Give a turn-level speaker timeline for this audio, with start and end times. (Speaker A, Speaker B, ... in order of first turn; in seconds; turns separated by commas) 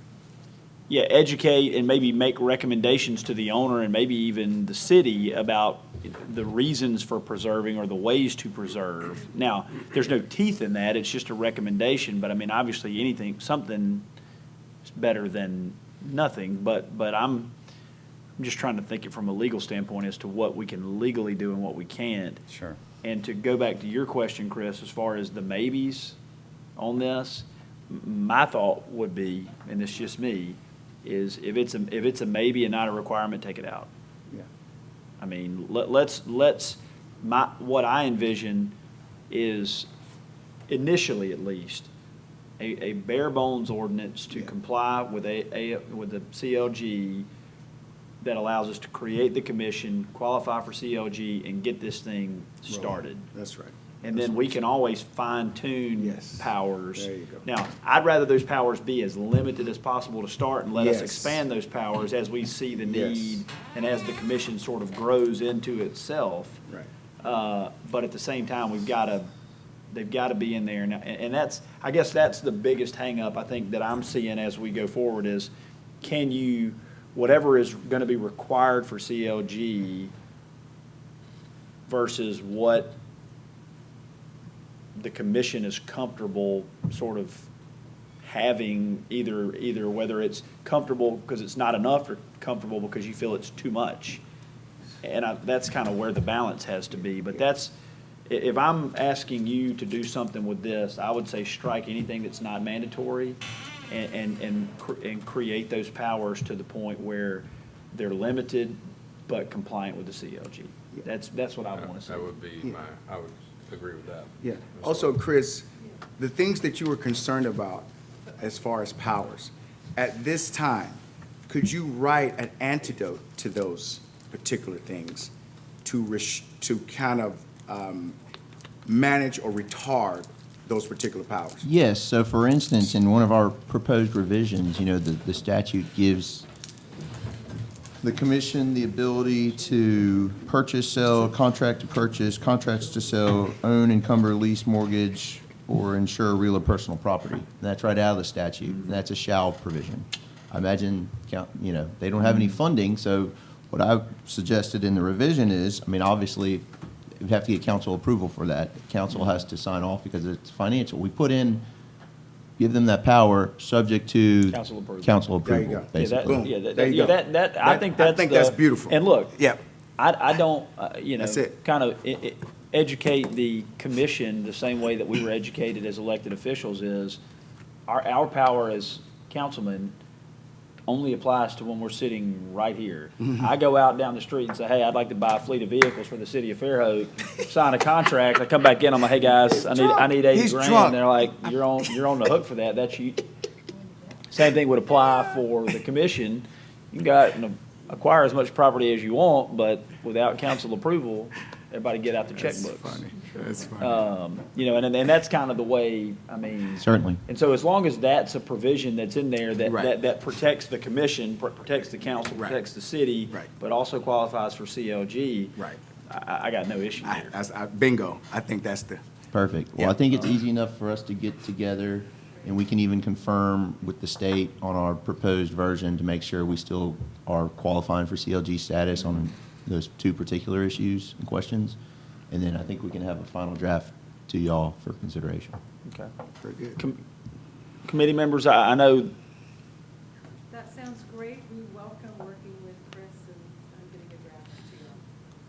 Speaker A: 0.9-14.1, Speaker A: 14.8-17.5, Speaker A: 18.4-22.4, Speaker B: 22.5-22.8, Speaker A: 23.0-26.2, Speaker A: 26.8-33.9, Speaker A: 35.2-38.7, Speaker A: 39.3-39.9, Speaker A: 40.7-41.9, Speaker A: 42.6-47.3, Speaker A: 48.2-53.3, Speaker B: 52.7-54.6, Speaker A: 54.0-66.6, Speaker B: 56.0-57.4, Speaker B: 60.7-61.4, Speaker B: 62.8-63.4, Speaker A: 67.2-69.3, Speaker A: 69.9-75.5, Speaker A: 76.0-80.1, Speaker A: 81.9-83.0, Speaker A: 85.0-87.5, Speaker A: 88.2-94.2, Speaker A: 95.0-97.7, Speaker A: 98.3-112.3, Speaker C: 111.7-115.1, Speaker B: 114.4-125.3, Speaker B: 125.8-128.2, Speaker B: 128.8-131.7, Speaker D: 131.6-136.5, Speaker D: 138.0-156.7, Speaker D: 157.2-161.6, Speaker D: 162.6-166.5, Speaker A: 164.5-165.1, Speaker B: 165.4-169.6, Speaker A: 165.9-169.4, Speaker A: 170.0-177.2, Speaker B: 171.2-171.5, Speaker A: 177.9-179.9, Speaker A: 180.9-193.2, Speaker B: 189.5-191.5, Speaker A: 194.3-203.0, Speaker B: 202.4-204.0, Speaker A: 203.8-217.3, Speaker D: 206.8-207.2, Speaker B: 209.7-209.9, Speaker B: 217.0-219.0, Speaker D: 219.3-231.8, Speaker B: 219.8-220.1, Speaker D: 232.3-235.6, Speaker B: 236.4-236.8, Speaker A: 237.8-239.1, Speaker E: 240.5-245.0